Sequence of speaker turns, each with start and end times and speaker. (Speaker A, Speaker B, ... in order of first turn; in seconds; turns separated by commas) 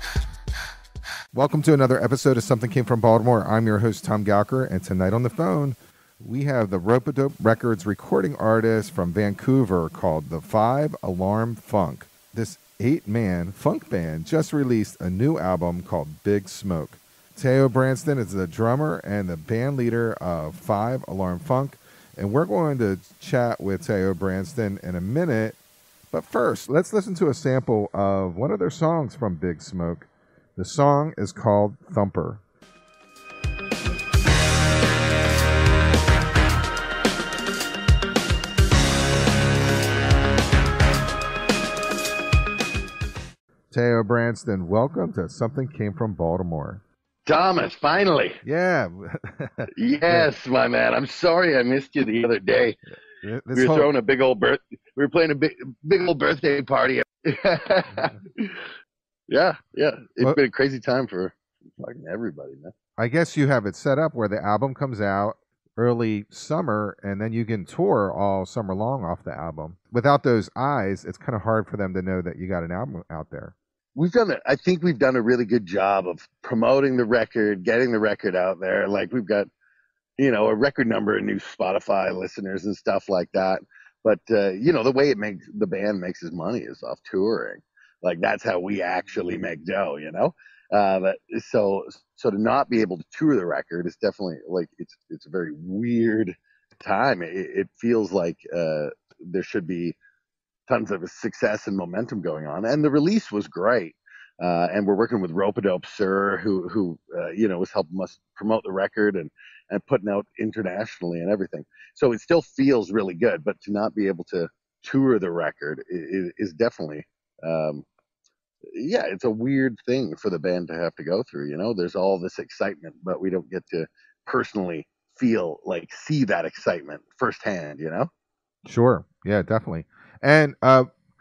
Speaker A: 1.3-25.6, Speaker A: 26.1-32.4, Speaker A: 43.7-46.8, Speaker B: 47.2-48.4, Speaker A: 48.4-50.3, Speaker B: 49.7-52.8, Speaker A: 53.2-53.9, Speaker B: 53.5-58.6, Speaker B: 59.3-62.7, Speaker A: 63.0-73.5, Speaker B: 74.0-79.5, Speaker B: 80.2-100.0, Speaker B: 100.7-117.8, Speaker B: 118.7-128.1, Speaker A: 128.7-130.9